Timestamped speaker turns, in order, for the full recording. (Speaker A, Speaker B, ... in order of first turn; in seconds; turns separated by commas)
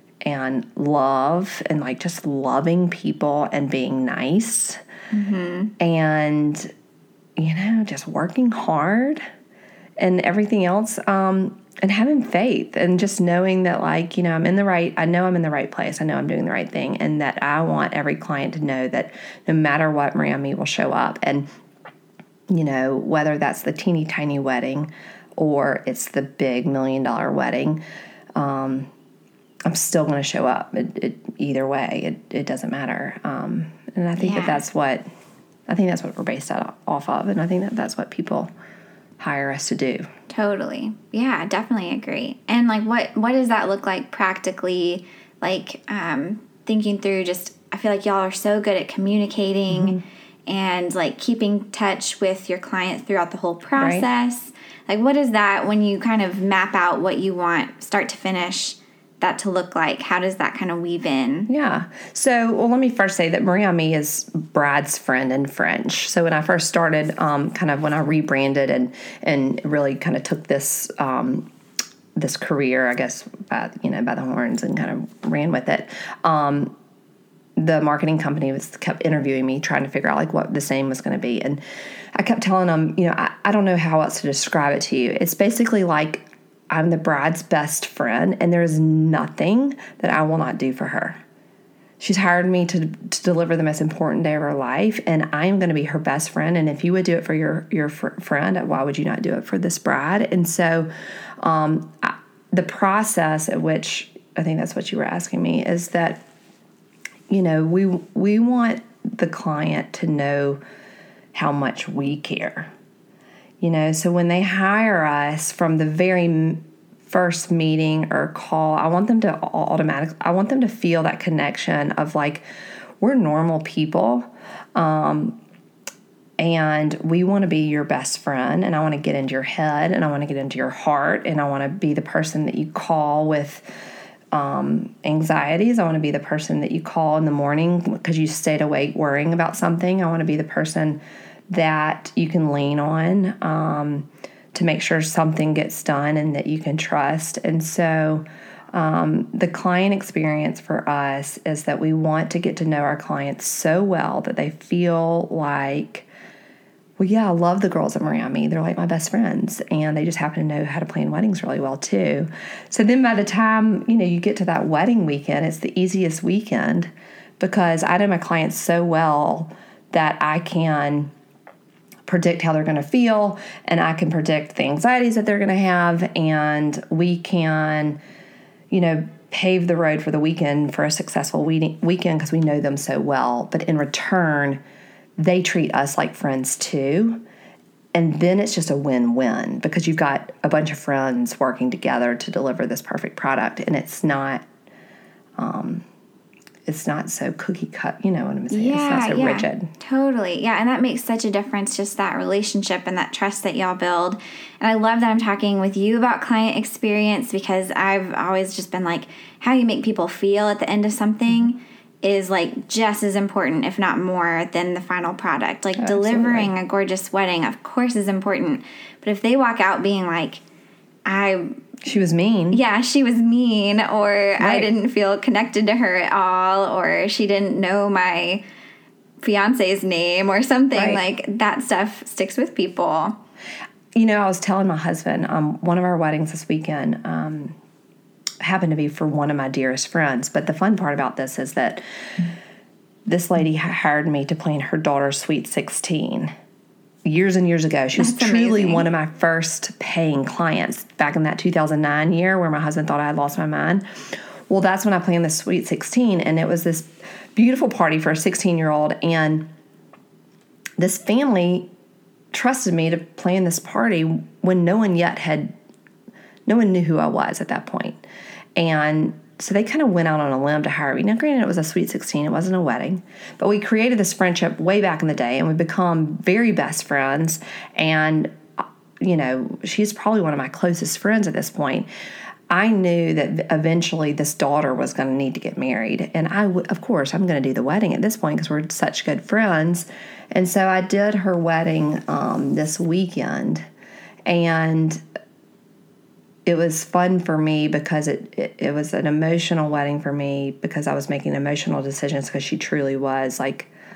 Speaker A: 0.2-4.8, Speaker B: 5.1-5.7, Speaker A: 5.8-6.7, Speaker A: 7.4-9.2, Speaker A: 10.0-21.5, Speaker A: 22.5-27.8, Speaker A: 28.3-28.9, Speaker A: 29.6-35.0, Speaker B: 34.2-34.6, Speaker A: 35.7-38.5, Speaker A: 39.2-40.1, Speaker B: 40.3-61.5, Speaker A: 49.7-50.0, Speaker A: 53.8-54.0, Speaker A: 61.5-71.5, Speaker A: 72.1-76.7, Speaker A: 77.6-81.6, Speaker A: 82.1-91.2, Speaker A: 92.0-106.2, Speaker A: 107.3-110.6, Speaker A: 111.3-112.7, Speaker A: 113.6-122.4, Speaker A: 123.0-125.4, Speaker A: 126.4-133.6, Speaker A: 134.3-156.1, Speaker A: 157.0-171.1, Speaker A: 172.1-178.0, Speaker A: 178.7-184.6, Speaker A: 185.2-187.2, Speaker A: 187.9-194.4, Speaker A: 195.4-195.8, Speaker A: 196.7-199.7, Speaker B: 198.5-220.4, Speaker A: 215.8-216.5, Speaker B: 221.1-221.5, Speaker A: 221.8-222.6, Speaker B: 222.5-228.4, Speaker A: 224.4-224.7, Speaker B: 229.2-233.2, Speaker A: 230.7-231.0, Speaker A: 233.9-237.6, Speaker A: 238.4-241.8, Speaker A: 243.1-246.3, Speaker A: 247.0-259.5, Speaker B: 248.0-248.8, Speaker A: 260.8-261.7, Speaker A: 262.3-265.5, Speaker A: 266.4-268.0, Speaker A: 268.6-278.4, Speaker A: 279.0-281.9, Speaker A: 282.5-293.6, Speaker A: 294.2-295.0, Speaker A: 296.4-303.7